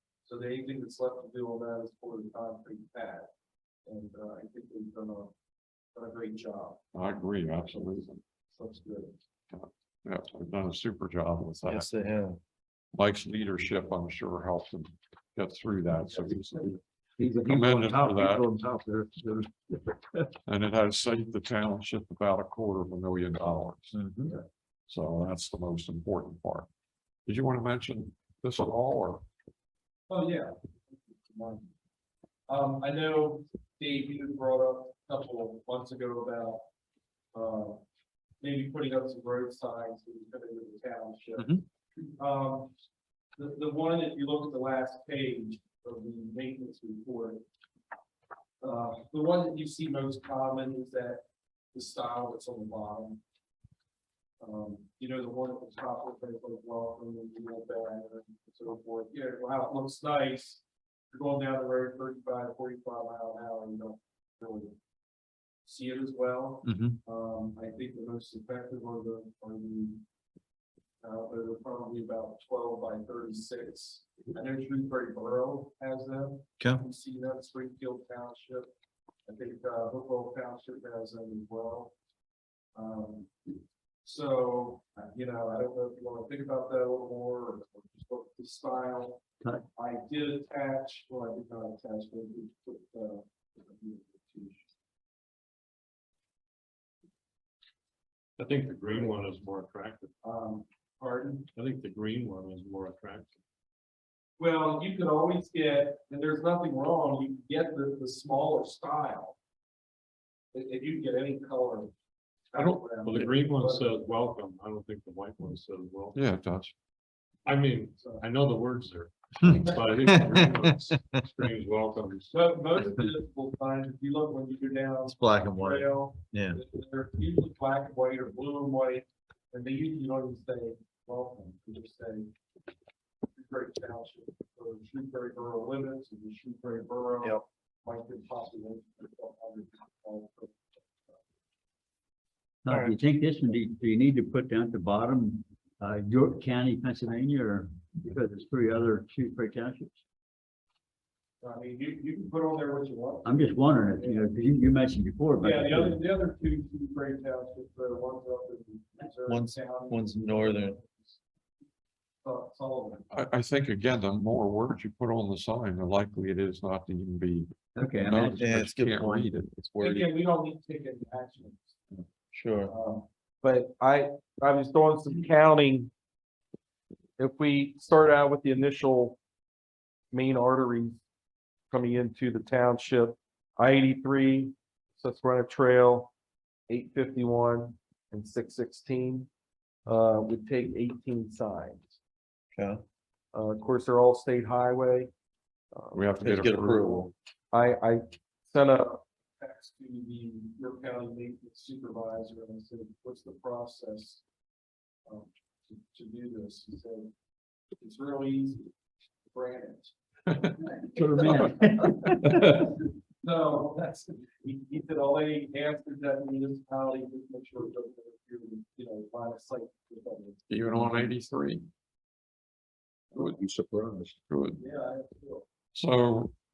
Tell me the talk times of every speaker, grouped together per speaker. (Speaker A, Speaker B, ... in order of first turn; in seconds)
Speaker A: 0.2-3.3, 3.9-5.3, 5.9-7.0, 7.5-9.2, 30.1-31.7, 32.5-36.6, 37.3-37.8, 38.4-42.7, 43.4-47.4, 48.6-51.2, 51.7-53.2, 54.4-64.8, 65.6-70.0, 71.0-78.7, 79.3-81.9, 82.8-83.3, 84.0-89.2, 89.8-94.7, 98.9-99.2, 100.2-101.5, 104.4-109.4, 110.5-111.9, 112.5-114.1, 118.0-118.2, 119.5-119.9, 122.3-132.3, 133.3-141.2, 151.4-154.4, 155.4-161.2, 162.2-163.2, 169.8-171.8, 172.7-175.9, 177.2-179.2, 180.1-181.0, 181.7-186.1, 186.7-189.3, 189.9-192.0, 193.3-195.1, 195.7-196.4, 197.5-204.2, 205.1-207.1, 207.8-208.7, 209.3-221.1, 224.6-225.5
Speaker B: 7.0-8.2, 9.5-11.9, 12.9-16.8, 17.4-18.5, 20.5-24.0, 24.9-26.7, 27.3-29.2, 112.6-113.3, 116.1-116.7, 163.1-169.5, 195.9-197.0, 220.5-221.7, 223.1-223.4, 224.3-224.6, 225.7-226.3
Speaker C: 11.7-12.4, 23.9-24.3, 41.4-41.6, 66.7-67.0, 120.0-121.0, 125.1-126.6, 159.3-160.8, 168.2-170.1, 172.3-172.7, 192.6-192.8, 196.2-197.1
Speaker D: 17.2-20.2, 142.7-150.0, 153.2-156.0, 167.8-168.4, 210.9-212.6
Speaker E: 98.4-100.1, 101.5-103.3, 113.0-116.2, 117.5-122.3